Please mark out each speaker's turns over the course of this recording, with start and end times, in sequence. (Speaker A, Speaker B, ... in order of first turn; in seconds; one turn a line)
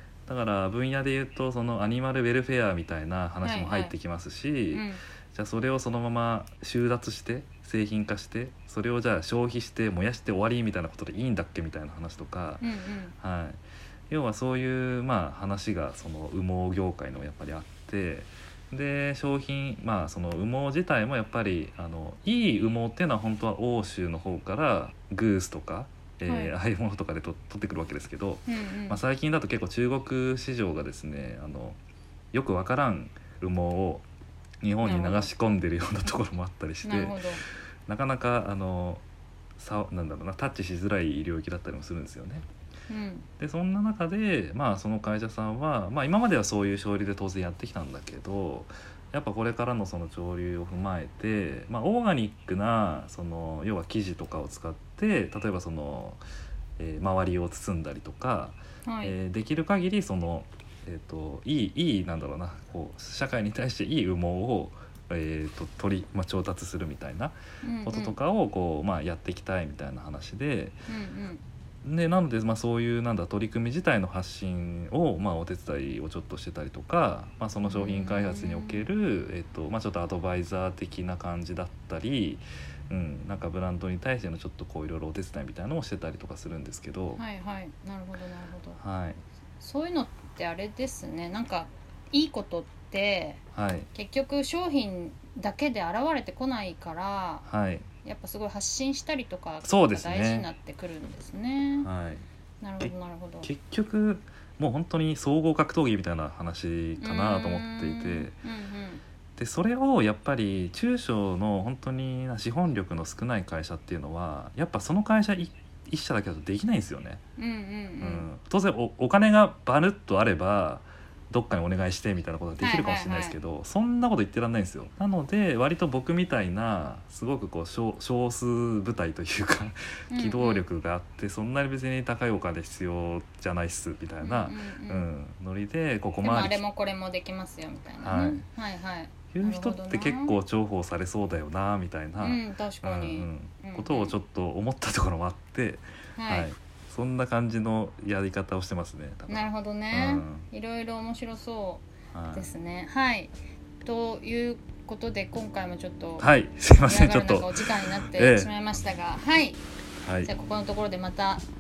Speaker A: 0.3-12.6
Speaker B: 3.4-3.9
Speaker B: 4.7-5.0
Speaker B: 12.6-13.2
Speaker A: 13.2-31.8
Speaker B: 26.2-26.6
Speaker B: 28.5-29.0
Speaker A: 32.3-34.1
Speaker A: 34.6-37.2
Speaker B: 34.8-35.3
Speaker B: 36.8-37.4
Speaker A: 37.9-39.0
Speaker A: 39.6-42.5
Speaker B: 42.9-43.3
Speaker A: 43.4-56.2
Speaker A: 56.8-70.8
Speaker B: 58.9-59.2
Speaker B: 67.6-68.2
Speaker B: 70.9-71.4
Speaker A: 71.8-87.2
Speaker B: 77.7-78.8
Speaker B: 87.2-88.8
Speaker A: 88.8-89.2
Speaker B: 89.6-93.4
Speaker A: 93.5-93.9
Speaker B: 93.9-97.5
Speaker A: 97.5-97.9
Speaker B: 98.0-101.9
Speaker A: 99.6-100.5
Speaker A: 101.8-102.3
Speaker B: 102.6-103.5
Speaker A: 103.4-108.3
Speaker B: 107.0-109.0
Speaker A: 109.4-117.2
Speaker B: 117.4-118.3
Speaker A: 118.0-136.6
Speaker B: 122.6-123.4
Speaker B: 130.1-130.6
Speaker B: 134.2-135.1
Speaker B: 136.2-140.4
Speaker A: 138.0-138.4
Speaker A: 139.3-150.5
Speaker B: 142.2-144.2
Speaker B: 146.2-146.5
Speaker B: 149.3-153.3
Speaker A: 152.1-152.5
Speaker B: 153.8-159.6
Speaker A: 156.2-158.5
Speaker A: 160.0-160.3
Speaker B: 160.2-161.5